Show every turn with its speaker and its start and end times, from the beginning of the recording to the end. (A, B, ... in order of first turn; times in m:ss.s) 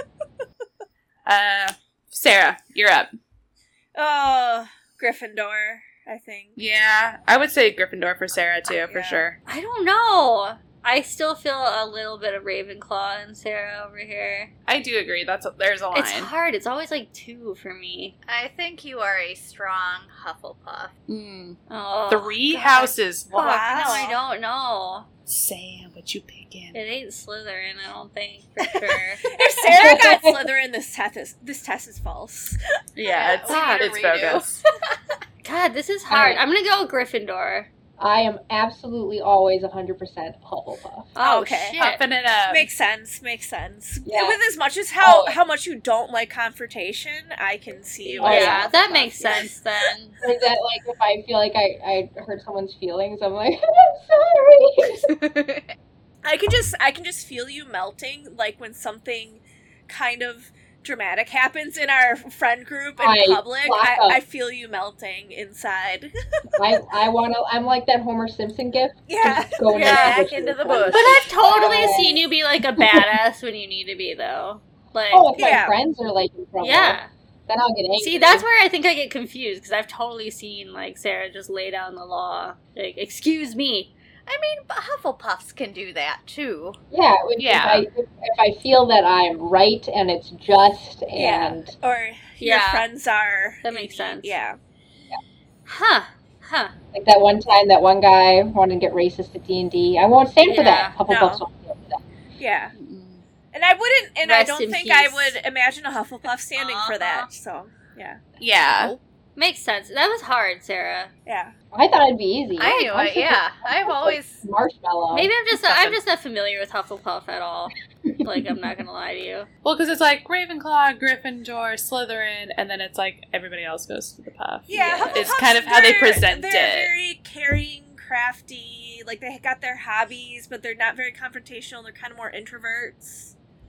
0:01.3-0:03.1 A
0:04.0-0:06.6 B
0:06.6-0:09.4 A
0:08.8-0:09.3 B
0:09.5-0:14.5 C
0:14.7-0:16.3 A
0:15.9-0:18.2 C
0:18.3-0:20.9 D
0:21.1-0:24.1 A
0:21.7-0:25.1 C
0:23.4-0:24.2 B
0:25.3-0:26.8 A
0:26.7-0:29.3 C
0:29.2-0:32.6 B
0:29.7-0:30.4 E
0:33.0-0:34.6 A
0:33.1-0:35.0 D
0:35.4-0:37.7 C
0:36.1-0:36.4 E
0:38.0-0:41.1 E
0:41.2-0:42.0 C
0:41.2-0:41.8 B
0:41.8-0:42.7 A
0:42.5-0:49.5 B
0:44.0-0:44.4 E
0:45.0-0:45.4 E
0:48.1-0:49.4 D
0:48.2-0:48.7 E
0:48.2-0:50.2 C
0:50.2-0:55.1 E
0:55.1-0:55.7 D
0:56.2-1:06.7 B
1:03.0-1:04.2 E
1:06.6-1:12.2 E
1:09.1-1:10.0 B
1:09.7-1:12.1 D
1:09.7-1:10.2 C
1:10.8-1:15.4 C
1:12.8-1:13.1 E
1:15.1-1:18.5 E
1:15.4-1:15.8 B
1:16.6-1:17.1 C
1:18.0-1:23.9 C
1:24.3-1:26.8 D
1:26.9-1:31.7 E
1:27.4-1:27.9 A
1:31.2-1:34.6 B
1:32.4-1:32.9 C
1:33.6-1:34.4 C
1:35.7-1:36.7 C
1:36.9-1:42.0 E
1:40.5-1:41.0 C
1:41.1-1:41.4 B
1:42.4-1:42.7 B
1:42.8-1:43.2 A
1:43.5-1:48.2 B
1:44.2-1:45.4 C
1:46.6-1:47.3 D
1:48.4-1:48.9 A
1:48.7-1:49.0 D
1:49.4-1:51.1 C
1:51.3-1:51.5 B
1:51.7-1:55.3 E
1:52.6-1:54.4 D
1:55.1-1:59.5 C
1:55.5-1:56.0 A
1:58.1-1:58.8 E
1:59.6-2:06.9 A
2:04.7-2:13.3 B
2:04.8-2:05.2 C